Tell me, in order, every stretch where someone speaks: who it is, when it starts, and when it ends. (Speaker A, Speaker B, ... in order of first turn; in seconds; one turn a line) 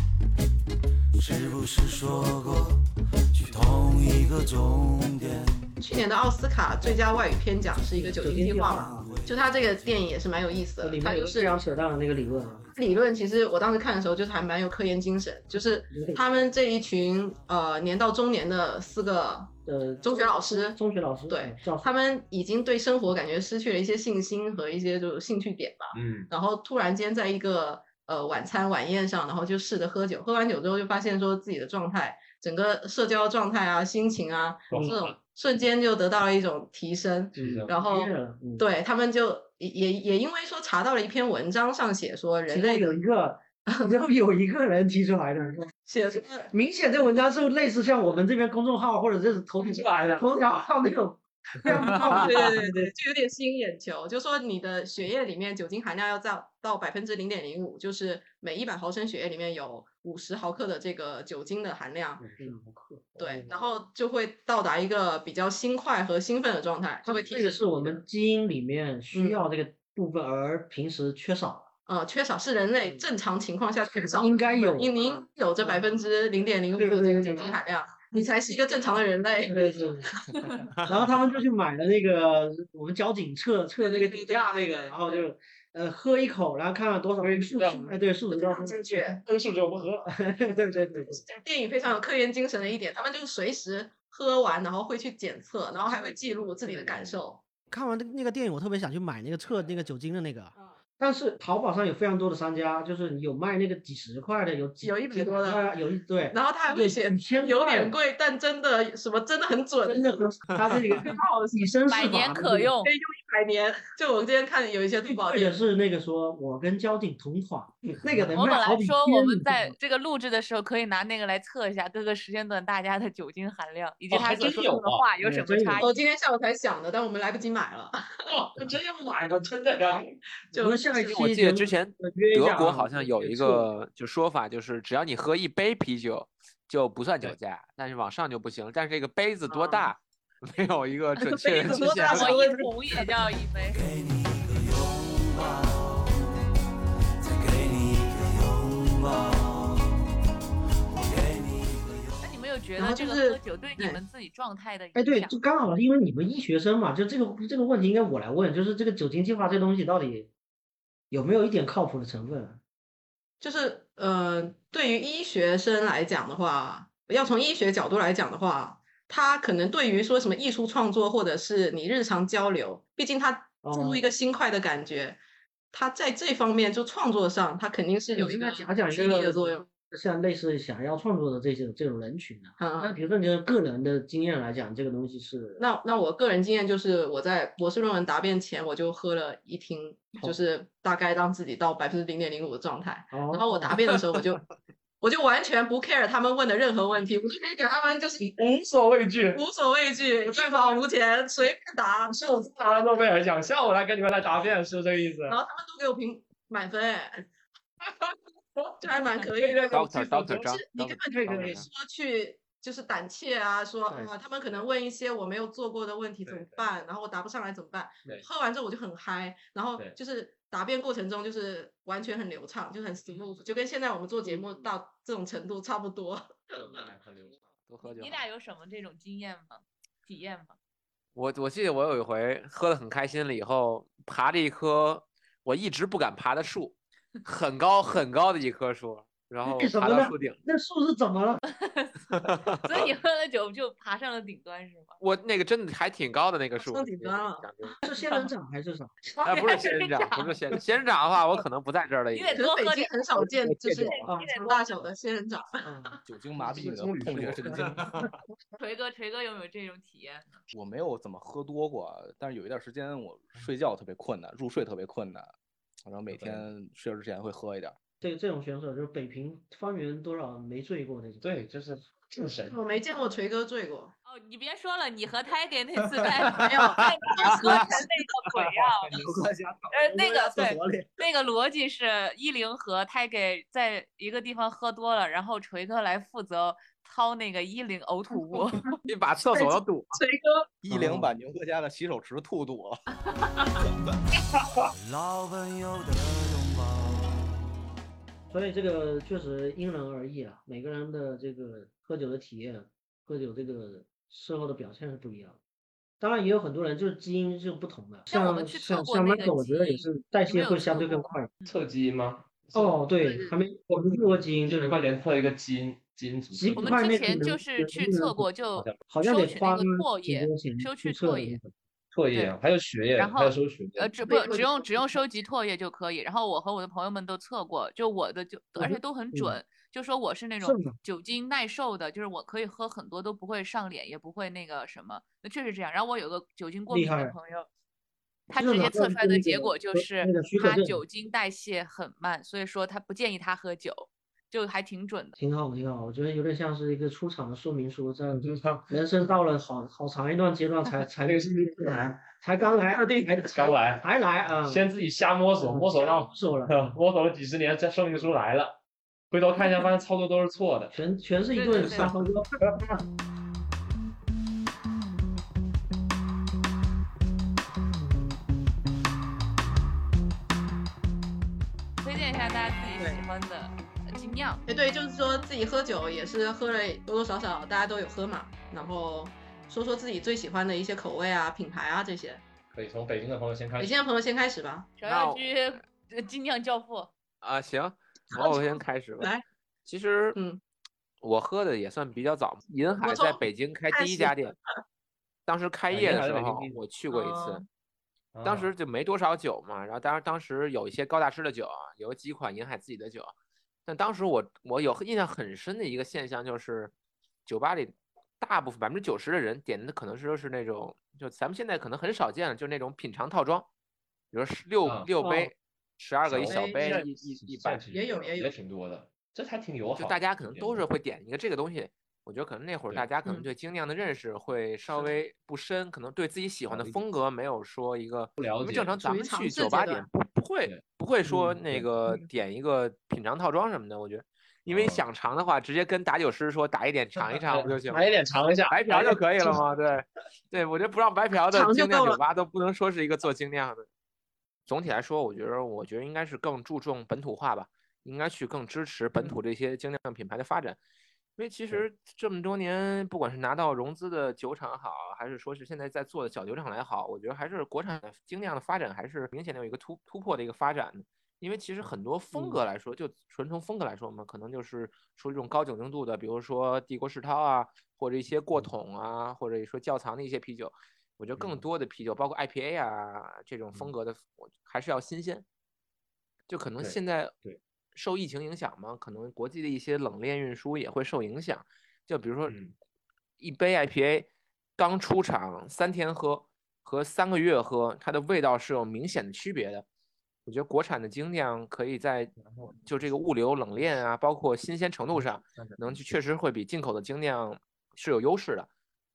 Speaker A: 1.1-5.6
Speaker B: 5.8-11.6
Speaker C: 8.0-9.2
Speaker A: 8.4-10.0
Speaker C: 10.8-12.7
Speaker B: 12.8-20.8
Speaker C: 15.9-16.2
Speaker C: 19.7-21.9
Speaker B: 21.3-42.9
Speaker D: 25.9-26.3
Speaker D: 34.7-35.1
Speaker C: 34.7-35.0
Speaker D: 37.4-37.7
Speaker C: 37.4-38.7
Speaker C: 42.5-45.7
Speaker B: 45.9-46.5
Speaker C: 46.5-52.9
Speaker D: 49.6-50.2
Speaker B: 52.1-62.5
Speaker C: 62.2-63.1
Speaker D: 63.2-63.5
Speaker B: 63.2-68.0
Speaker C: 67.0-71.7
Speaker B: 69.1-69.4
Speaker B: 71.9-80.6
Speaker C: 72.8-73.1
Speaker C: 73.9-75.8
Speaker C: 76.7-77.6
Speaker C: 79.5-80.3
Speaker C: 80.8-89.2
Speaker B: 83.8-85.2
Speaker D: 87.2-87.9
Speaker B: 88.3-89.2
Speaker D: 89.0-90.1
Speaker C: 90.1-91.2
Speaker B: 91.2-97.4
Speaker C: 96.7-97.0
Speaker C: 97.7-108.0
Speaker B: 104.8-105.7
Speaker B: 106.3-110.1
Speaker C: 109.8-112.7
Speaker E: 110.5-110.8
Speaker B: 111.0-111.7
Speaker F: 111.9-112.9
Speaker B: 112.8-115.6
Speaker C: 115.0-119.8
Speaker F: 118.3-126.0
Speaker D: 124.1-125.1
Speaker C: 125.2-125.9
Speaker B: 125.8-128.0
Speaker D: 128.3-130.1
Speaker B: 130.5-131.2
Speaker C: 130.5-133.7
Speaker E: 131.1-142.4
Speaker B: 139.5-139.9
Speaker B: 141.2-142.7
Speaker F: 142.1-143.8
Speaker A: 143.7-146.2
Speaker A: 147.2-149.9
Speaker A: 150.9-152.4
Speaker F: 152.2-155.4
Speaker B: 152.8-154.0
Speaker C: 154.9-160.3
Speaker C: 161.1-162.6
Speaker B: 163.4-175.2
Speaker C: 173.6-174.0
Speaker B: 175.7-179.7
Speaker C: 178.1-185.6
Speaker B: 182.6-182.9
Speaker B: 185.6-194.4
Speaker C: 193.1-193.8
Speaker B: 195.0-198.3
Speaker D: 198.3-199.4
Speaker B: 199.3-202.2
Speaker D: 200.3-200.6
Speaker D: 202.1-205.4
Speaker B: 205.3-207.2
Speaker B: 208.8-226.8
Speaker D: 209.3-210.4
Speaker E: 209.7-211.7
Speaker C: 211.3-211.6
Speaker D: 216.3-216.7
Speaker D: 226.6-227.4
Speaker E: 227.7-228.2
Speaker F: 227.8-230.6
Speaker E: 231.2-240.4
Speaker C: 239.4-241.4
Speaker F: 241.5-241.9
Speaker E: 242.1-242.9
Speaker F: 242.6-245.0
Speaker E: 245.0-247.8
Speaker B: 246.6-247.5
Speaker C: 247.8-249.0
Speaker F: 248.0-248.3
Speaker F: 249.1-250.4
Speaker E: 249.2-252.4
Speaker F: 252.1-253.2
Speaker B: 252.4-255.7
Speaker E: 253.5-254.0
Speaker F: 253.8-254.7
Speaker C: 254.1-254.3
Speaker C: 255.6-255.9
Speaker G: 256.1-257.8
Speaker D: 256.4-258.0
Speaker F: 258.6-260.4
Speaker G: 260.5-265.3
Speaker G: 265.9-267.8
Speaker D: 266.1-266.5
Speaker C: 268.0-271.3
Speaker D: 271.2-272.6
Speaker B: 272.5-273.9
Speaker F: 274.1-278.9
Speaker B: 276.4-277.9
Speaker D: 278.9-279.2
Speaker G: 278.9-279.7
Speaker F: 279.7-288.7
Speaker C: 279.8-280.9
Speaker E: 288.9-290.0
Speaker B: 289.2-290.5
Speaker G: 290.6-292.8
Speaker C: 290.7-291.1
Speaker F: 293.2-293.5
Speaker A: 294.8-297.4
Speaker C: 298.3-305.4
Speaker C: 306.0-311.3
Speaker F: 308.1-311.6
Speaker D: 311.5-312.8
Speaker C: 312.5-314.8
Speaker D: 313.7-316.9
Speaker C: 316.3-318.3
Speaker F: 316.6-321.4
Speaker C: 318.9-321.4
Speaker D: 321.9-323.9
Speaker F: 323.0-337.5
Speaker B: 324.1-324.8
Speaker C: 328.6-329.4
Speaker C: 330.4-330.8
Speaker C: 336.7-337.2
Speaker F: 338.3-345.2
Speaker C: 338.4-340.8
Speaker C: 345.2-354.7
Speaker D: 348.2-348.7
Speaker D: 351.0-351.7
Speaker D: 352.7-353.9
Speaker D: 354.4-358.6
Speaker C: 355.4-356.7
Speaker D: 359.1-360.8
Speaker C: 360.7-362.6
Speaker F: 361.3-361.9
Speaker F: 371.8-374.4
Speaker B: 374.5-382.2
Speaker D: 382.5-383.8
Speaker B: 383.6-384.7
Speaker F: 384.8-386.9
Speaker E: 384.9-385.2
Speaker E: 387.2-389.1
Speaker B: 388.1-389.2
Speaker E: 389.7-390.2
Speaker B: 390.1-390.4
Speaker E: 391.0-394.4
Speaker B: 392.8-394.4
Speaker E: 395.3-397.4
Speaker D: 395.7-396.6
Speaker B: 396.9-397.4
Speaker D: 398.1-398.5
Speaker E: 398.2-403.1
Speaker E: 403.7-406.7
Speaker E: 407.3-413.5
Speaker E: 414.1-417.7
Speaker D: 414.6-414.9
Speaker C: 415.0-415.3
Speaker D: 416.1-420.6
Speaker B: 416.3-416.8
Speaker B: 417.7-418.3
Speaker E: 419.8-437.9
Speaker D: 426.5-426.8
Speaker D: 428.2-428.7
Speaker B: 428.8-429.9
Speaker D: 430.5-432.0
Speaker D: 434.5-434.8
Speaker D: 437.0-439.4
Speaker E: 438.5-443.7
Speaker B: 441.1-442.0
Speaker E: 444.5-450.6
Speaker E: 451.2-475.3
Speaker D: 471.2-471.4
Speaker E: 476.3-477.2
Speaker D: 476.6-477.4
Speaker E: 477.7-482.4
Speaker D: 482.3-482.6
Speaker E: 483.2-489.7
Speaker E: 490.3-498.5
Speaker D: 492.2-492.7
Speaker D: 494.9-495.8